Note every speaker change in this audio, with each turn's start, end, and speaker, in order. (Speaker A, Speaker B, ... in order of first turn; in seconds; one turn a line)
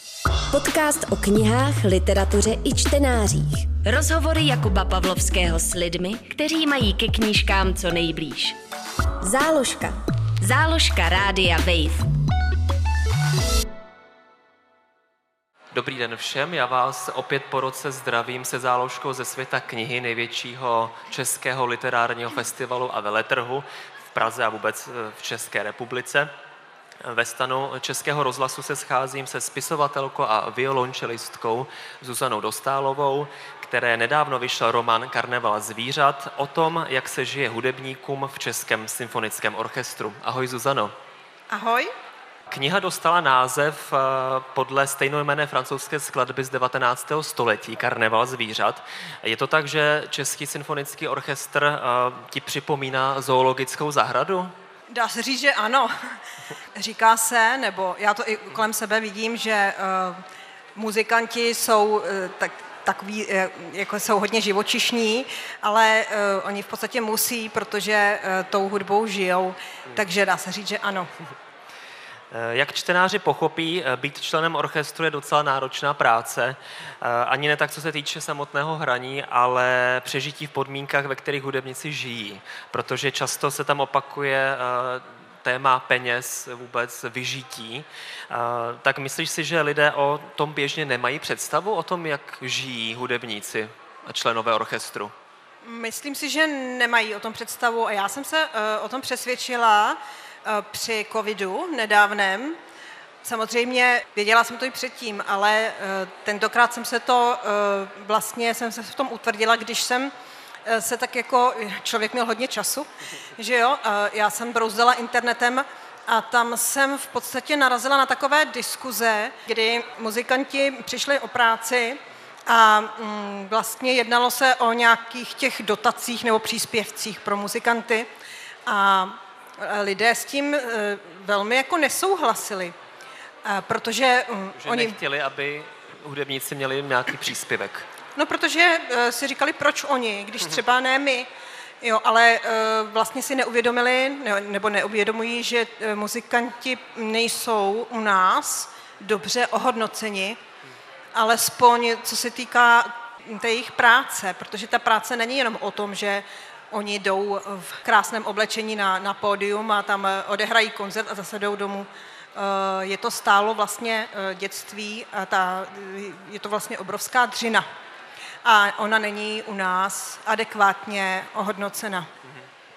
Speaker A: 0.5-8.6
Speaker A: 9.2-12.1
Speaker B: 15.7-26.3
Speaker B: 27.0-40.9
Speaker C: 41.5-41.9
Speaker B: 42.5-54.5
Speaker C: 54.9-55.9
Speaker C: 56.8-60.2
Speaker C: 60.8-71.1
Speaker B: 72.3-95.1
Speaker C: 95.6-102.6
Speaker C: 103.2-110.1
Speaker C: 110.7-128.1
Speaker C: 128.7-132.7
Speaker C: 133.4-135.0
Speaker B: 134.6-137.9
Speaker C: 138.2-141.3
Speaker C: 141.8-150.4
Speaker C: 151.1-167.6
Speaker C: 168.4-172.1